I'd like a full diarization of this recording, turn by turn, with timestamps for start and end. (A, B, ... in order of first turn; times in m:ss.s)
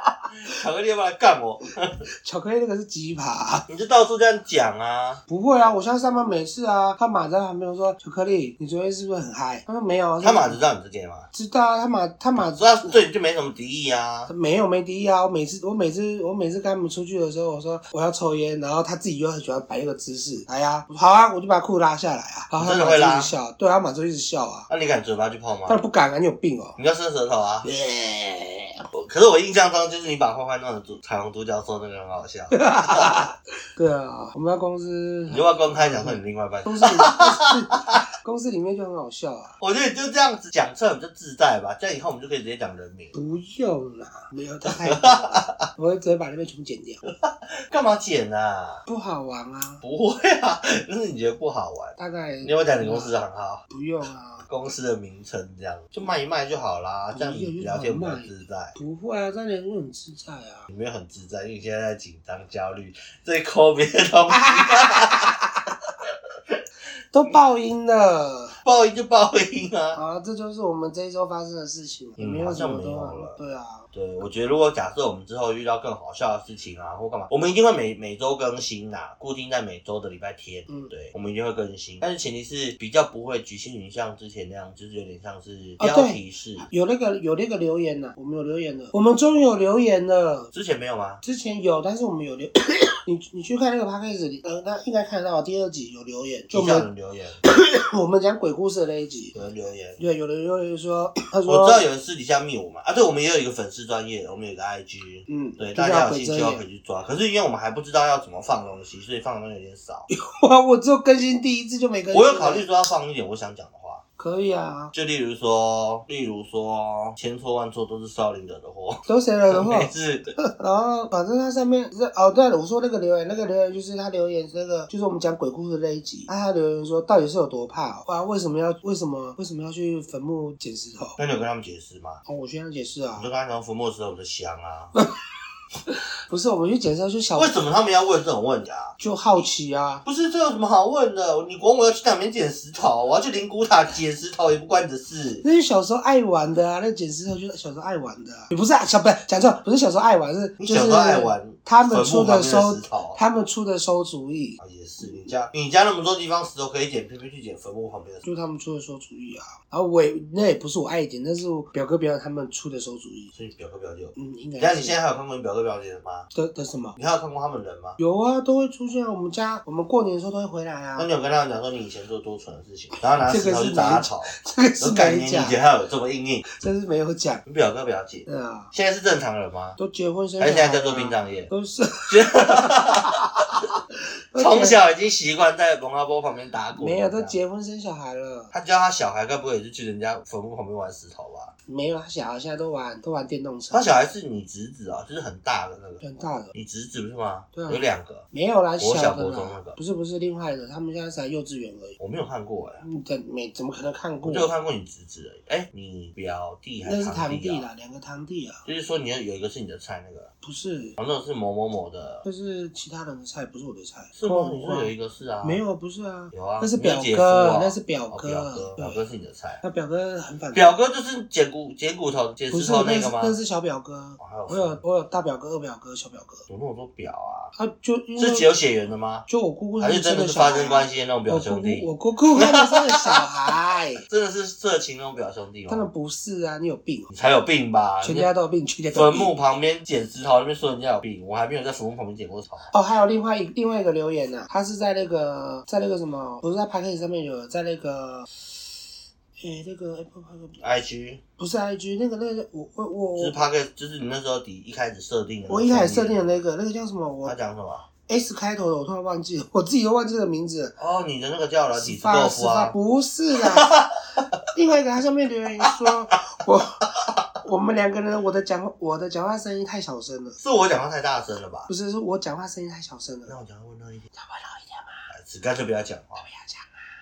0:00.4-0:02.0 A
0:02.2-0:03.6 B
0:03.7-0:05.2 A
0:05.3-0:10.6 B
0:10.2-0:11.3 A
0:11.3-0:13.0 B
0:12.4-0:14.3 A
0:14.3-0:24.7 B
0:22.6-0:23.3 A
0:24.7-0:25.8 A
0:25.7-0:26.8 B
0:26.8-0:27.7 A
0:27.6-0:28.8 B
0:28.9-0:33.2 A
0:32.5-0:39.6 B
0:35.3-0:38.0 A
0:39.6-0:43.1 A
0:43.1-0:47.0 B
0:44.6-0:45.7 A
0:47.1-0:48.8 A
0:48.8-0:49.8 B
0:49.8-0:53.6 A
0:52.0-0:53.2 B
0:53.7-0:54.5 B
0:54.5-0:58.8 A
0:57.1-1:00.7 B
1:00.7-1:05.4 A
1:04.3-1:05.7 B
1:06.0-1:06.6 A
1:07.1-1:08.6 B
1:08.6-1:10.0 A
1:09.9-1:13.9 B
1:12.2-1:13.4 A
1:13.9-1:26.7 A
1:25.8-1:30.5 B
1:30.5-1:31.2 A
1:31.2-1:36.9 B
1:36.5-1:37.4 A
1:37.4-1:39.3 B
1:39.3-1:40.0 A
1:40.0-1:41.8 B
1:41.4-1:50.1 A
1:45.3-1:46.6 B
1:50.1-1:52.6 B
1:52.1-1:54.0 A
1:54.2-1:54.9 B
1:54.9-2:00.3 A
1:59.0-2:11.2 B
2:11.2-2:12.2 A
2:12.2-2:13.3 B
2:13.2-2:14.9 A
2:15.9-2:17.6 B
2:17.4-2:18.9 A
2:19.0-2:20.0 B
2:20.0-2:25.4 A
2:25.4-2:35.3 B
2:30.6-2:33.2 A
2:34.6-2:38.2 A
2:38.2-2:43.3 B
2:43.3-2:46.3 A
2:44.2-2:45.0 B
2:46.3-2:47.0 B
2:47.0-2:48.0 A
2:48.0-2:51.1 B
2:51.0-2:56.4 A
2:53.1-2:55.6 B
2:56.5-2:57.4 B
2:57.4-2:59.8 A
2:58.3-2:58.7 B
2:59.8-3:03.7 B
3:00.4-3:01.5 A
3:02.1-3:03.7 A
3:04.3-3:04.8 B
3:04.3-3:07.4 A
3:06.7-3:08.5 B
3:08.5-3:11.5 A
3:11.7-3:13.9 B
3:13.7-3:18.2 A
3:16.0-3:16.5 B
3:17.5-3:22.0 B
3:18.8-3:19.8 A
3:22.0-3:22.8 A
3:22.8-3:24.5 B
3:24.2-3:27.6 A
3:26.8-3:28.6 B
3:28.6-3:30.3 A
3:30.4-3:31.0 B
3:31.0-3:32.2 A
3:32.2-3:39.0 B
3:34.1-3:35.6 A
3:36.3-3:39.6 A
3:39.6-3:40.7 B
3:40.5-3:43.4 A
3:42.5-3:46.4 B
3:44.2-3:44.8 A
3:46.5-3:47.5 A
3:47.6-3:48.5 B
3:48.2-3:49.2 A
3:49.3-3:54.0 B
3:49.8-3:53.2 A
3:54.0-3:55.9 A
3:55.7-3:57.1 B
3:57.1-3:58.3 A
3:58.0-3:59.3 B
3:58.9-4:02.7 A
4:02.7-4:08.4 B
4:09.4-4:10.6 B
4:10.6-4:11.2 A
4:11.4-4:13.4 B
4:13.2-4:16.3 A
4:15.5-4:17.3 B
4:17.2-4:17.9 A
4:18.1-4:20.8 B
4:20.8-4:22.7 A
4:21.8-4:23.8 B
4:23.4-4:24.4 A
4:24.5-4:26.8 B
4:25.6-4:25.9 A
4:27.4-4:30.4 B
4:30.4-4:31.7 A
4:31.7-4:33.4 B
4:33.3-4:34.1 A
4:34.2-4:35.1 B
4:35.1-4:36.2 A
4:36.2-4:36.8 B